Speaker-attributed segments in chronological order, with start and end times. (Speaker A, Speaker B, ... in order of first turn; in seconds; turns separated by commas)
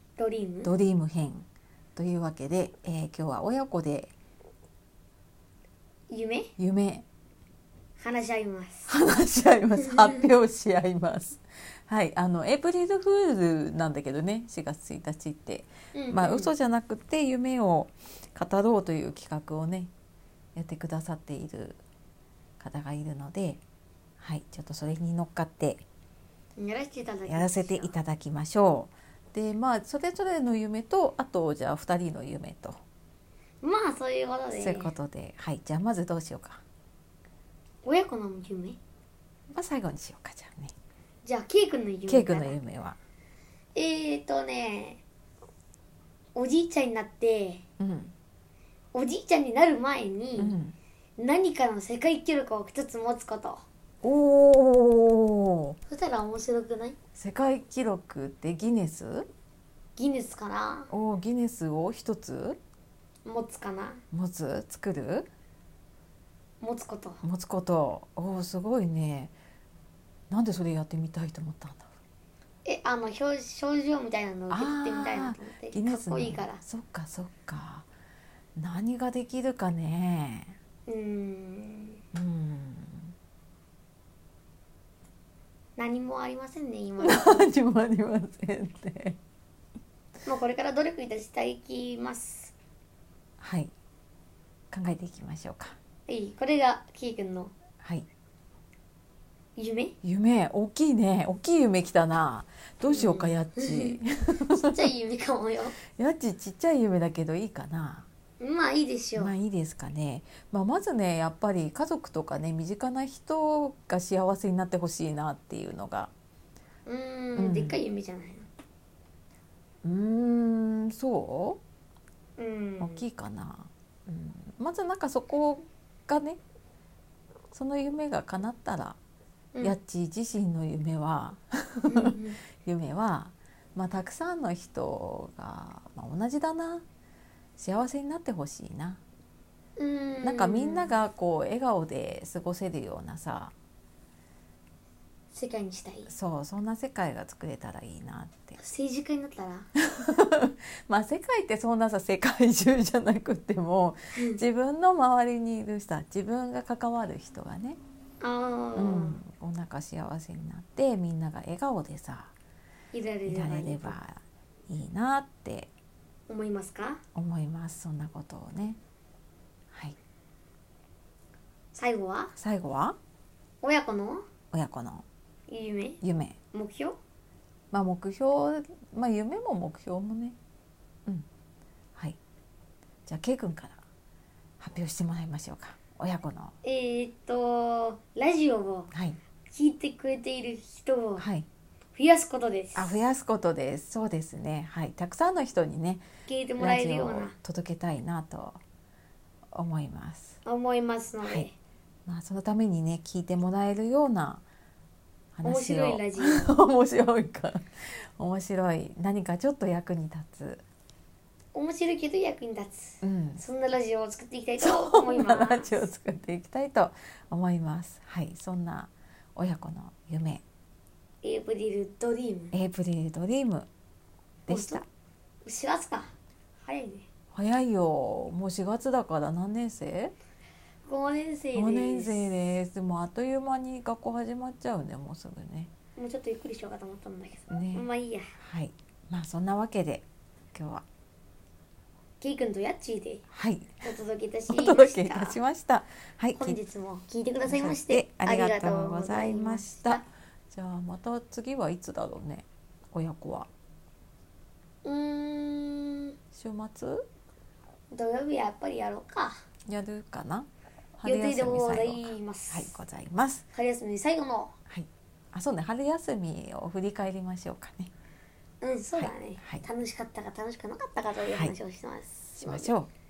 Speaker A: 0.2-0.7, Speaker B: 0.6-1.4, Speaker B: 1.9-4.1, Speaker A: 6.1-6.5, Speaker B: 6.6-7.0, Speaker A: 8.0-8.9, Speaker B: 8.9-19.9, Speaker A: 9.9-10.2, Speaker A: 15.9-16.5, Speaker B: 20.6-21.8, Speaker B: 22.6-23.6, Speaker B: 24.2-25.8, Speaker A: 26.6-27.9, Speaker B: 27.2-32.8, Speaker A: 33.6-34.9, Speaker B: 34.5-36.6, Speaker A: 37.8-38.8, Speaker B: 39.5-40.7, Speaker A: 41.2-42.5, Speaker B: 42.1-43.0, Speaker A: 43.7-45.0, Speaker A: 46.3-47.6, Speaker B: 47.8-48.1, Speaker A: 48.9-50.5, Speaker B: 50.4-50.8, Speaker A: 51.2-53.6, Speaker B: 54.0-55.8, Speaker A: 55.9-57.0, Speaker B: 57.1-59.3, Speaker A: 60.0-60.9, Speaker B: 60.9-62.6, Speaker A: 63.2-64.0, Speaker B: 64.1-65.3, Speaker A: 66.6-67.2, Speaker B: 67.2-69.3, Speaker B: 70.3-71.9, Speaker A: 72.6-76.6, Speaker B: 74.5-77.9, Speaker B: 78.6-80.6, Speaker A: 80.9-82.0, Speaker B: 82.1-83.1, Speaker A: 85.8-87.5, Speaker B: 87.0-89.2, Speaker A: 90.2-92.5, Speaker B: 93.4-93.7, Speaker B: 94.7-95.8, Speaker A: 96.1-97.5, Speaker B: 97.8-98.0, Speaker A: 99.5-99.9, Speaker B: 100.0-104.9, Speaker A: 102.9-104.0, Speaker A: 104.6-105.8, Speaker B: 105.9-108.1, Speaker A: 108.4-109.3, Speaker B: 109.2-116.1, Speaker A: 116.8-118.5, Speaker B: 117.4-117.8, Speaker B: 119.8-121.6, Speaker A: 122.4-123.0, Speaker B: 122.8-126.4, Speaker B: 127.5-129.0, Speaker A: 129.5-129.8, Speaker B: 129.6-136.8, Speaker A: 131.9-132.4, Speaker B: 137.6-139.0, Speaker A: 139.8-140.9, Speaker B: 140.2-143.5, Speaker A: 145.3-146.1, Speaker B: 146.1-148.6, Speaker A: 148.6-149.7, Speaker B: 149.8-157.8, Speaker A: 154.1-154.4, Speaker A: 158.2-159.2, Speaker B: 158.8-162.3, Speaker A: 162.9-164.0, Speaker B: 163.2-165.7, Speaker A: 166.3-167.0, Speaker B: 167.1-168.8, Speaker A: 171.7-172.3, Speaker B: 172.4-172.9, Speaker A: 173.6-174.2, Speaker B: 174.5-175.0, Speaker A: 175.5-176.0, Speaker B: 176.0-176.4, Speaker A: 176.5-177.0, Speaker B: 177.7-180.3, Speaker B: 183.1-183.8, Speaker B: 184.6-186.5, Speaker A: 186.6-188.9, Speaker B: 188.9-189.2, Speaker A: 189.5-191.2, Speaker B: 191.2-191.4, Speaker A: 191.9-193.1, Speaker B: 192.7-196.1, Speaker A: 196.2-197.3, Speaker B: 196.6-198.6, Speaker B: 199.5-200.4, Speaker A: 200.4-201.5, Speaker B: 202.1-204.4, Speaker B: 205.3-210.6, Speaker A: 205.4-206.5, Speaker A: 211.5-215.8, Speaker B: 213.0-213.4, Speaker B: 214.6-220.4, Speaker A: 221.2-222.5, Speaker B: 222.5-223.7, Speaker A: 224.5-224.8, Speaker B: 224.5-224.8, Speaker A: 225.4-227.1, Speaker B: 227.3-230.1, Speaker A: 230.8-232.3, Speaker B: 231.5-235.7, Speaker A: 236.0-238.3, Speaker B: 237.5-237.9, Speaker B: 238.4-240.8, Speaker A: 242.2-243.2, Speaker B: 243.3-243.8, Speaker A: 243.8-245.4, Speaker B: 244.5-246.6, Speaker A: 246.3-250.0, Speaker B: 247.4-253.5, Speaker A: 254.8-256.1, Speaker B: 256.3-257.1, Speaker A: 257.9-259.4, Speaker B: 259.7-263.4, Speaker A: 261.0-262.8, Speaker A: 263.5-264.5, Speaker B: 264.7-267.9, Speaker A: 268.6-272.7, Speaker B: 269.0-269.6, Speaker B: 271.2-271.5, Speaker B: 272.4-272.9